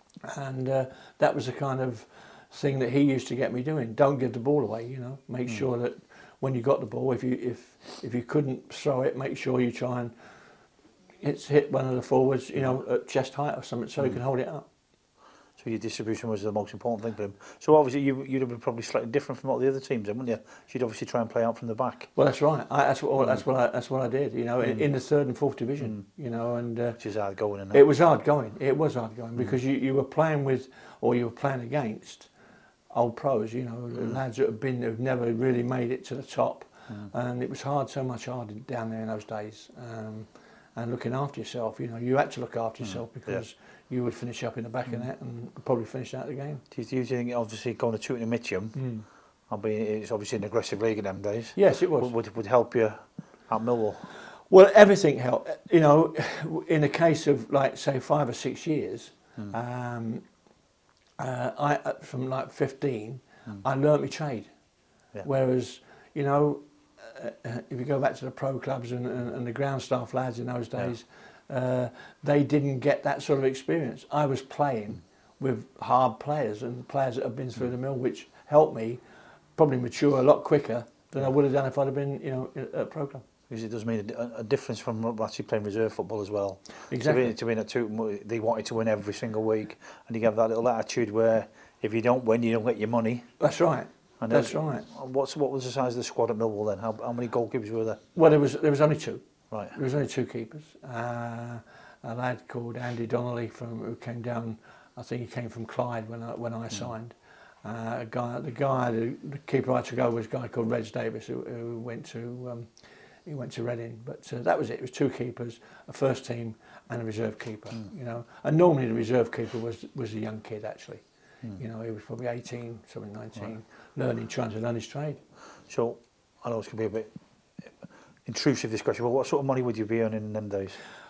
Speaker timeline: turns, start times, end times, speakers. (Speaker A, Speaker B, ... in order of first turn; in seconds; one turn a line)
Speaker A: 0.2-10.1
Speaker A: 11.2-14.7
Speaker B: 15.6-22.1
Speaker A: 22.1-27.0
Speaker B: 27.0-27.8
Speaker A: 27.7-32.3
Speaker A: 32.9-46.6
Speaker B: 42.8-43.4
Speaker B: 46.7-54.1
Speaker A: 48.8-49.1
Speaker A: 51.5-52.1
Speaker A: 54.5-60.2
Speaker A: 61.2-64.5
Speaker A: 65.2-79.0
Speaker A: 79.6-83.2
Speaker B: 83.5-93.3
Speaker A: 86.9-87.3
Speaker A: 93.4-94.9
Speaker B: 94.2-98.0
Speaker A: 98.1-112.7
Speaker B: 99.5-99.8
Speaker A: 113.2-121.0
Speaker A: 121.6-125.2
Speaker B: 125.7-130.8